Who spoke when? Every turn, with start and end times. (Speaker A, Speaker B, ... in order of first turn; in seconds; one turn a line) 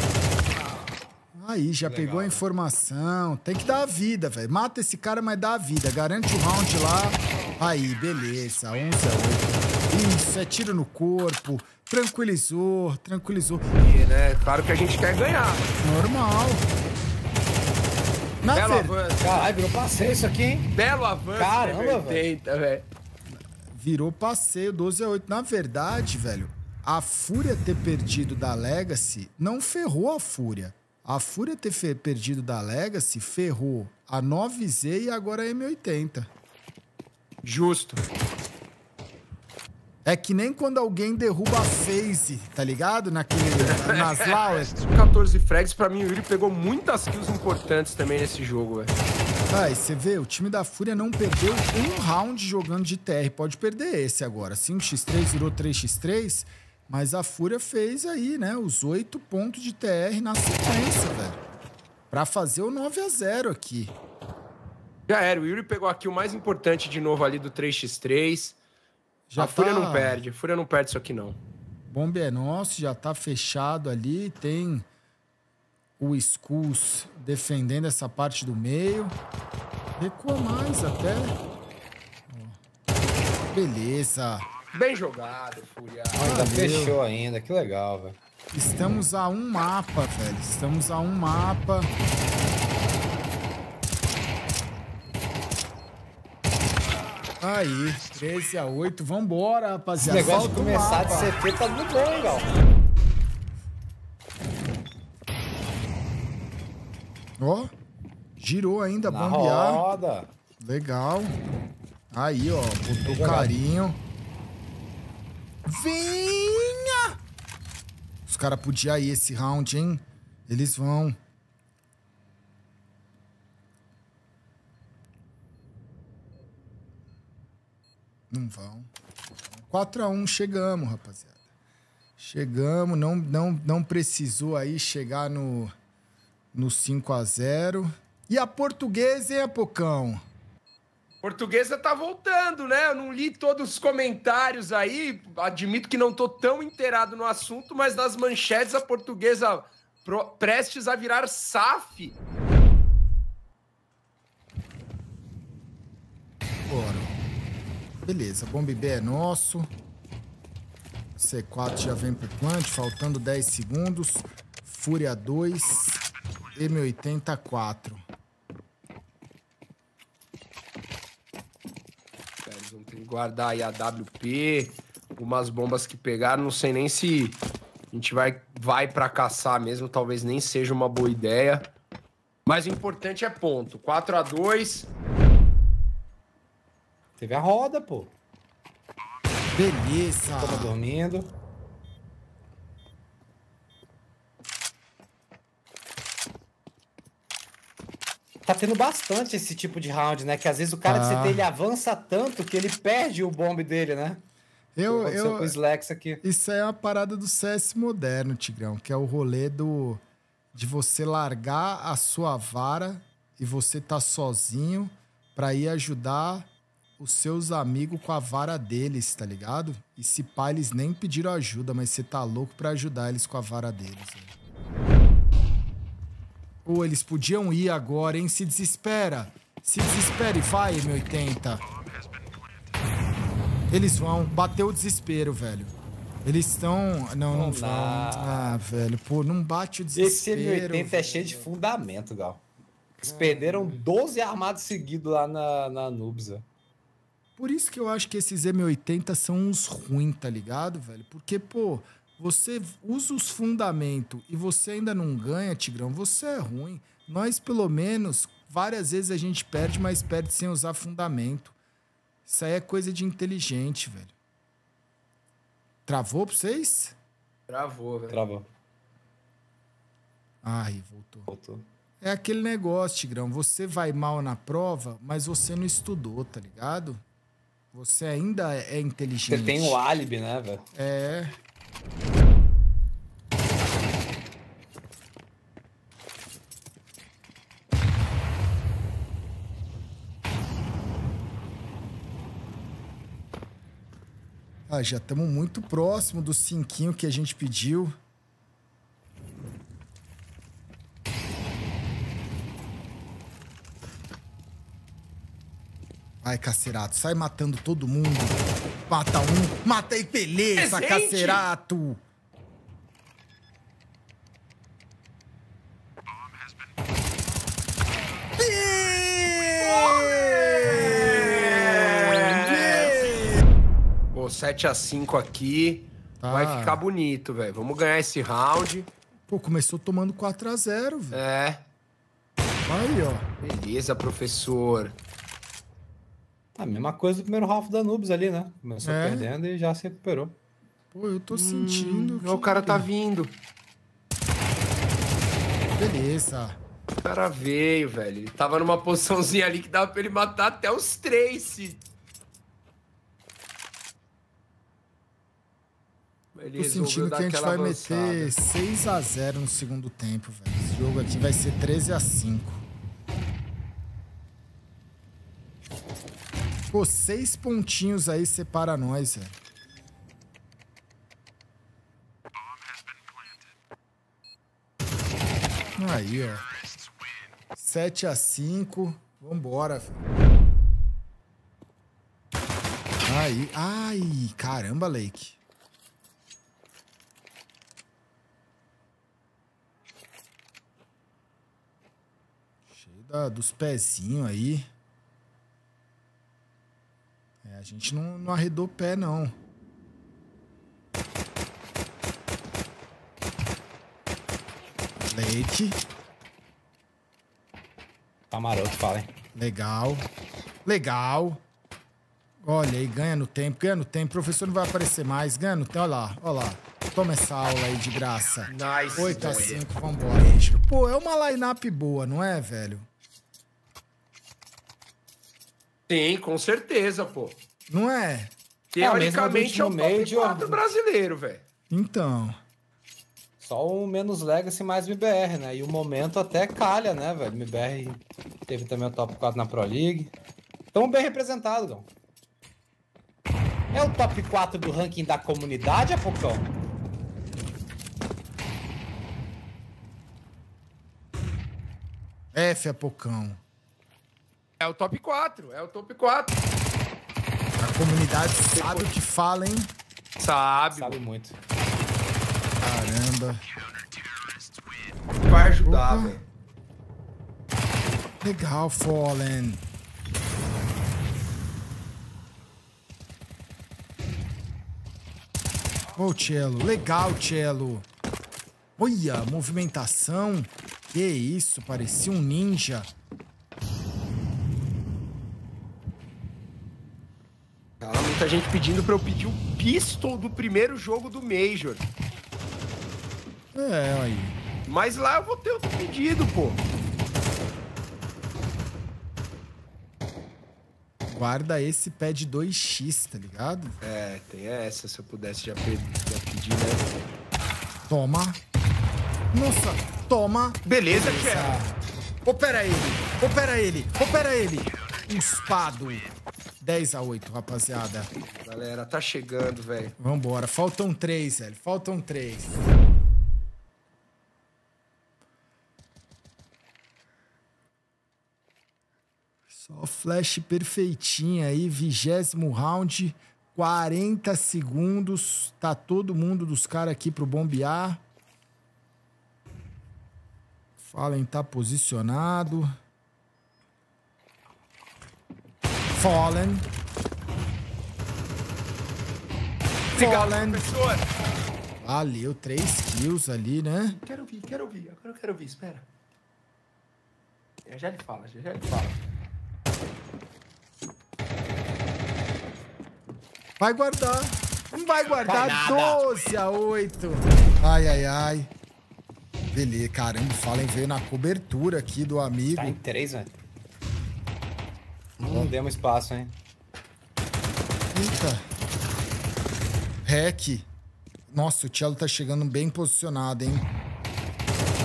Speaker A: 1.4-13.6
Speaker B: 1.8-2.4
Speaker C: 13.8-15.8
Speaker A: 15.8-16.6
Speaker A: 18.4-18.9
Speaker C: 18.5-19.3
Speaker B: 19.2-20.7
Speaker C: 20.7-22.9
Speaker B: 21.4-22.3
Speaker A: 23.3-36.3
Speaker C: 37.4-38.1
Speaker A: 40.0-44.7
Speaker C: 43.6-48.9
Speaker A: 49.5-61.4
Speaker A: 62.1-63.9
Speaker C: 65.1-68.6
Speaker A: 69.3-70.2
Speaker C: 69.4-71.4
Speaker A: 71.9-74.9
Speaker A: 76.0-79.1
Speaker A: 80.0-81.4
Speaker A: 82.3-82.6
Speaker A: 83.5-84.5
Speaker C: 84.7-86.3
Speaker B: 86.1-88.2
Speaker A: 86.2-87.0
Speaker A: 88.5-91.9
Speaker A: 97.4-101.3
Speaker B: 100.0-102.5
Speaker A: 107.4-107.7
Speaker A: 108.4-109.8
Speaker B: 109.0-110.3
Speaker A: 110.6-111.3
Speaker A: 112.1-114.0
Speaker B: 112.9-113.5
Speaker A: 115.6-117.1
Speaker A: 118.3-121.2
Speaker A: 128.3-128.9
Speaker A: 129.5-131.3
Speaker A: 132.2-135.7
Speaker A: 136.5-140.2
Speaker C: 141.2-152.2
Speaker A: 156.7-157.1
Speaker A: 158.0-159.7
Speaker A: 161.2-166.0
Speaker A: 166.5-168.0
Speaker C: 172.4-181.7
Speaker C: 182.4-184.9
Speaker B: 187.2-188.1
Speaker A: 189.5-190.8
Speaker B: 190.4-191.3
Speaker B: 198.4-204.2
Speaker A: 200.8-201.4
Speaker A: 204.8-205.5
Speaker B: 204.8-206.2
Speaker A: 206.2-210.0
Speaker A: 210.5-224.3
Speaker A: 226.6-231.6
Speaker A: 233.7-241.5
Speaker B: 237.3-238.6
Speaker B: 239.9-242.4
Speaker B: 243.0-246.4
Speaker A: 243.1-243.8
Speaker A: 247.4-261.6
Speaker A: 262.2-264.1
Speaker A: 265.9-266.9
Speaker C: 267.5-268.2
Speaker B: 268.1-268.5
Speaker A: 270.4-271.3
Speaker B: 271.3-271.7
Speaker A: 272.0-277.0
Speaker A: 277.7-279.8
Speaker B: 279.3-280.6
Speaker A: 280.7-281.4
Speaker A: 294.7-297.9
Speaker A: 306.2-312.0
Speaker C: 310.6-311.4
Speaker A: 318.4-323.4
Speaker C: 319.6-323.0
Speaker C: 324.1-328.9
Speaker A: 326.2-326.8
Speaker A: 329.3-331.2
Speaker C: 331.1-331.6
Speaker A: 332.7-333.3
Speaker C: 333.4-335.0
Speaker B: 336.6-340.3
Speaker A: 338.8-339.3
Speaker A: 340.9-342.9
Speaker C: 341.3-343.3
Speaker A: 345.8-346.6
Speaker C: 347.0-351.8
Speaker C: 356.3-358.4
Speaker A: 356.6-362.6
Speaker A: 366.7-369.4
Speaker A: 375.8-376.4
Speaker A: 377.5-380.0
Speaker A: 383.0-385.4
Speaker A: 392.7-394.7
Speaker A: 397.4-399.3
Speaker A: 405.1-405.8
Speaker B: 408.3-409.1
Speaker A: 409.3-410.1
Speaker A: 410.6-411.4
Speaker A: 412.4-422.9
Speaker C: 418.5-419.6
Speaker C: 425.9-427.4
Speaker A: 427.7-428.3
Speaker C: 428.7-431.4
Speaker B: 428.8-430.6
Speaker A: 431.7-432.4
Speaker B: 433.4-440.1
Speaker B: 440.7-441.9
Speaker B: 443.7-446.5
Speaker A: 452.3-453.4
Speaker C: 454.6-456.4
Speaker A: 457.6-459.7
Speaker C: 458.5-458.9
Speaker C: 460.2-461.0
Speaker B: 460.7-461.4
Speaker A: 462.6-463.4
Speaker C: 465.1-466.2
Speaker A: 465.6-466.2
Speaker A: 468.2-469.6
Speaker A: 475.9-477.9
Speaker A: 478.8-482.9
Speaker C: 487.8-491.9
Speaker A: 493.5-494.4
Speaker C: 494.6-496.6
Speaker A: 501.1-503.8
Speaker C: 503.8-506.9
Speaker A: 507.9-508.4
Speaker A: 509.3-511.7
Speaker C: 510.6-511.6
Speaker A: 512.2-516.1
Speaker A: 516.6-518.1
Speaker C: 518.2-519.9
Speaker A: 520.0-522.7
Speaker A: 529.5-538.0
Speaker A: 540.8-542.7
Speaker A: 545.9-546.7
Speaker A: 549.9-550.7
Speaker C: 549.9-551.1
Speaker A: 551.8-554.0
Speaker C: 553.9-555.9
Speaker C: 557.6-559.0
Speaker A: 563.6-568.5
Speaker B: 565.2-566.0
Speaker A: 569.5-572.8
Speaker B: 572.5-573.3
Speaker B: 575.2-576.4
Speaker A: 577.9-578.4
Speaker A: 580.0-580.7
Speaker A: 581.3-583.7